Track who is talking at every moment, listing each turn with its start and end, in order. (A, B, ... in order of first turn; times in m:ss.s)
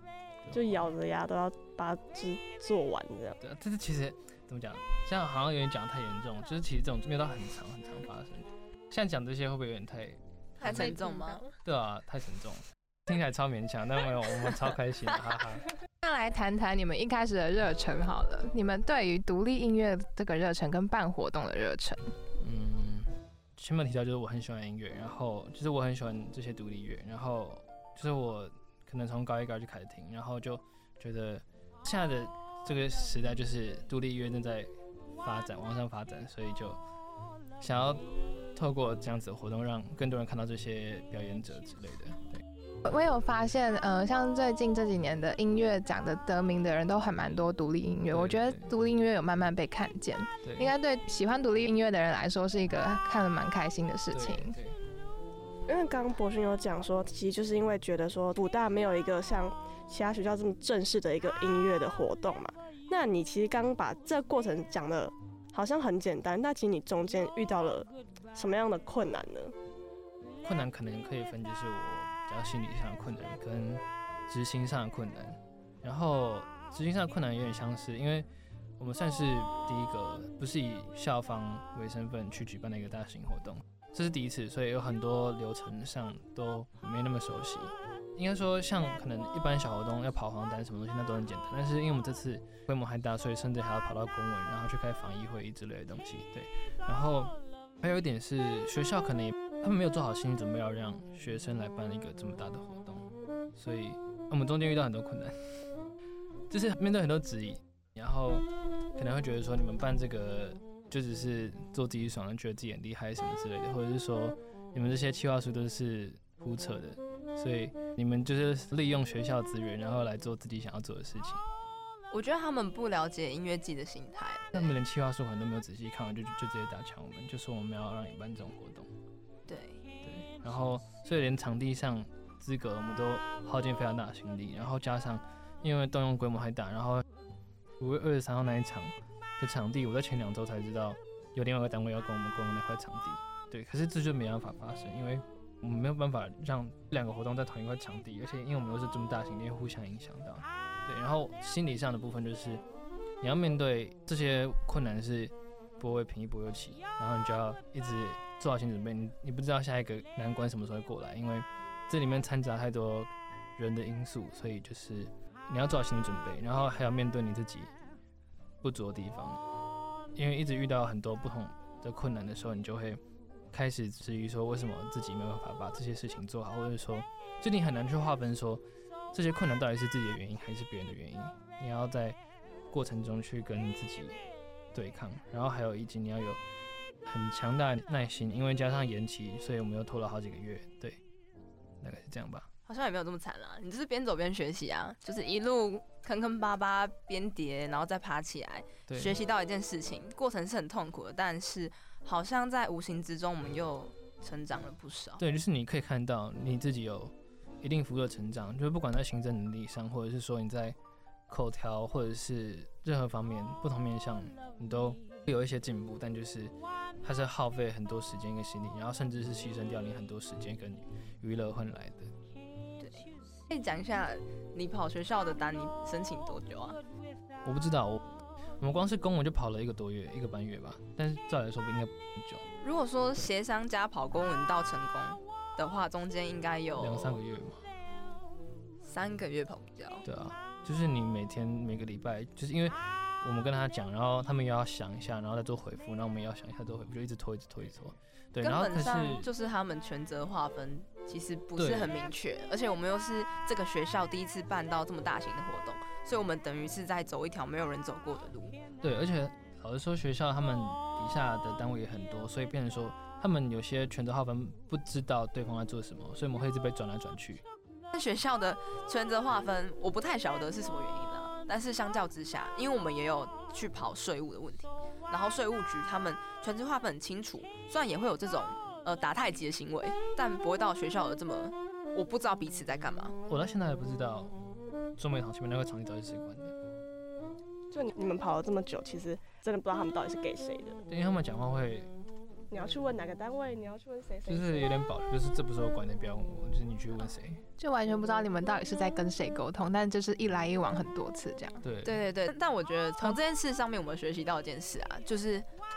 0:00.4-0:00.9 A
0:00.5-0:03.4 B
0:03.4-0:11.0 A
0:10.6-0:11.5 C
0:11.0-0:11.4 D
0:11.6-0:15.7 A
0:16.0-0:22.1 D
0:22.4-0:36.8 A
0:37.6-0:38.0 A
0:38.5-0:42.4 A
0:42.8-0:54.6 D
0:48.1-0:48.7 A
0:50.4-0:50.7 A
0:54.1-0:54.8 A
0:55.7-1:09.6 B
1:10.4-1:18.3 A
1:18.8-1:45.7 A
1:46.5-2:01.4 A
2:02.1-2:04.7 C
2:04.5-2:08.9 A
2:09.5-2:09.8 C
2:10.0-2:17.0 A
2:17.8-2:32.6 A
2:33.2-2:47.7 A
2:48.6-2:49.4 A
2:50.2-2:53.0 A
2:53.5-3:02.2 A
3:02.7-3:04.2 A
3:04.7-3:06.4 A
3:07.1-3:11.0 A
3:11.8-3:12.5 A
3:12.7-3:25.2 C
3:18.9-3:19.2 A
3:25.2-3:30.8 A
3:31.3-3:42.1 A
3:42.8-3:46.8 C
3:47.4-3:48.0 A
3:48.6-3:52.5 A
3:52.6-3:57.2 C
3:56.8-3:57.6 A
3:58.8-4:00.0 C
4:00.0-4:09.3 A
4:08.4-4:18.6 C
4:11.6-4:12.0 A
4:18.8-4:27.4 A
4:27.9-4:43.2 C
4:43.3-4:44.3 A
4:45.0-4:46.6 A
4:47.7-4:50.8 B
4:50.9-4:51.9 A
4:52.5-4:54.7 B
4:54.3-4:57.4 A
4:57.6-5:01.6 D
5:01.6-5:02.0 A
5:01.8-5:05.5 C